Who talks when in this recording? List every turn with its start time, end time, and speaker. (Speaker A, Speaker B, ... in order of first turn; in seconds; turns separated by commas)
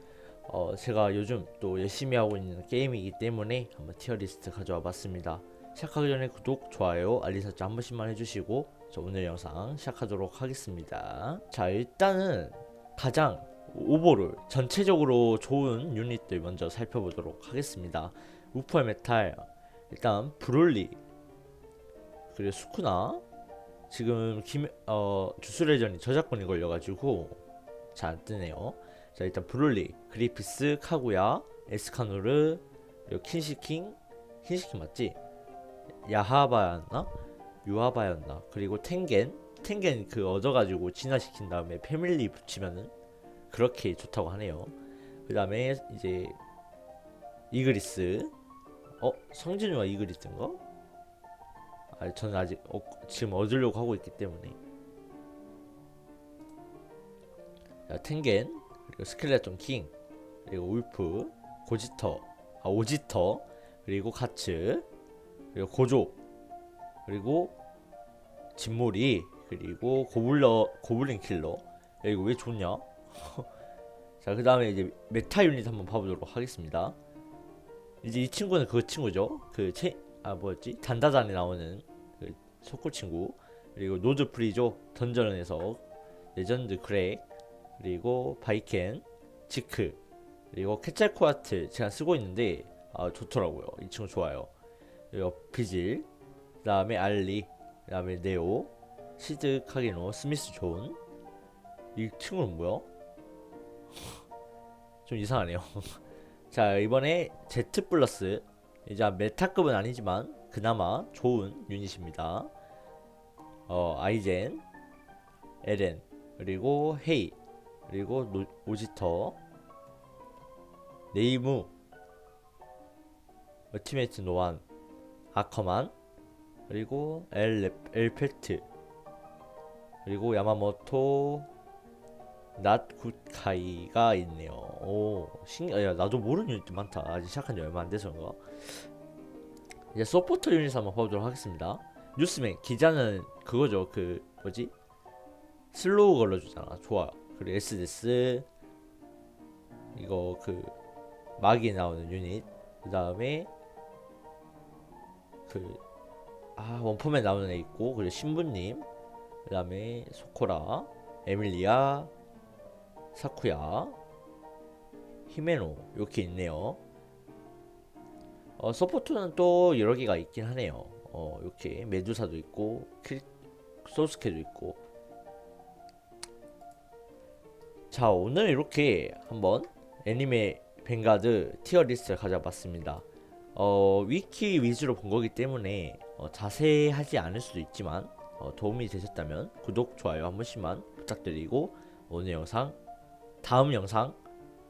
Speaker A: 0.5-21.0, Speaker A: 22.3-23.2, Speaker A: 23.9-27.4, Speaker A: 27.9-35.2, Speaker A: 36.0-37.1, Speaker A: 37.6-42.9, Speaker A: 43.5-44.7, Speaker A: 45.3-46.4, Speaker A: 47.5-48.3, Speaker A: 49.0-50.6, Speaker A: 51.9-54.6, Speaker A: 57.9-59.9, Speaker A: 60.5-64.8, Speaker A: 65.5-66.2, Speaker A: 67.0-67.5, Speaker A: 68.5-73.5, Speaker A: 74.2-77.0, Speaker A: 78.0-85.8, Speaker A: 86.3-87.2, Speaker A: 87.8-90.0, Speaker A: 90.5-94.5, Speaker A: 95.1-96.1, Speaker A: 96.6-101.0, Speaker A: 101.9-102.9, Speaker A: 105.0-106.0, Speaker A: 106.5-112.5, Speaker A: 113.7-114.6, Speaker A: 115.6-117.3, Speaker A: 117.9-119.4, Speaker A: 121.1-121.7, Speaker A: 123.7-124.6, Speaker A: 125.3-125.9, Speaker A: 126.7-128.7, Speaker A: 130.0-131.5, Speaker A: 132.6-138.8, Speaker A: 139.9-144.7, Speaker A: 145.7-148.4, Speaker A: 149.9-150.7, Speaker A: 151.4-153.5, Speaker A: 155.5-155.8, Speaker A: 156.6-158.9, Speaker A: 159.4-162.1, Speaker A: 163.1-164.0, Speaker A: 165.3-166.8, Speaker A: 168.6-173.3, Speaker A: 173.8-174.8, Speaker A: 177.9-192.8, Speaker A: 193.4-194.2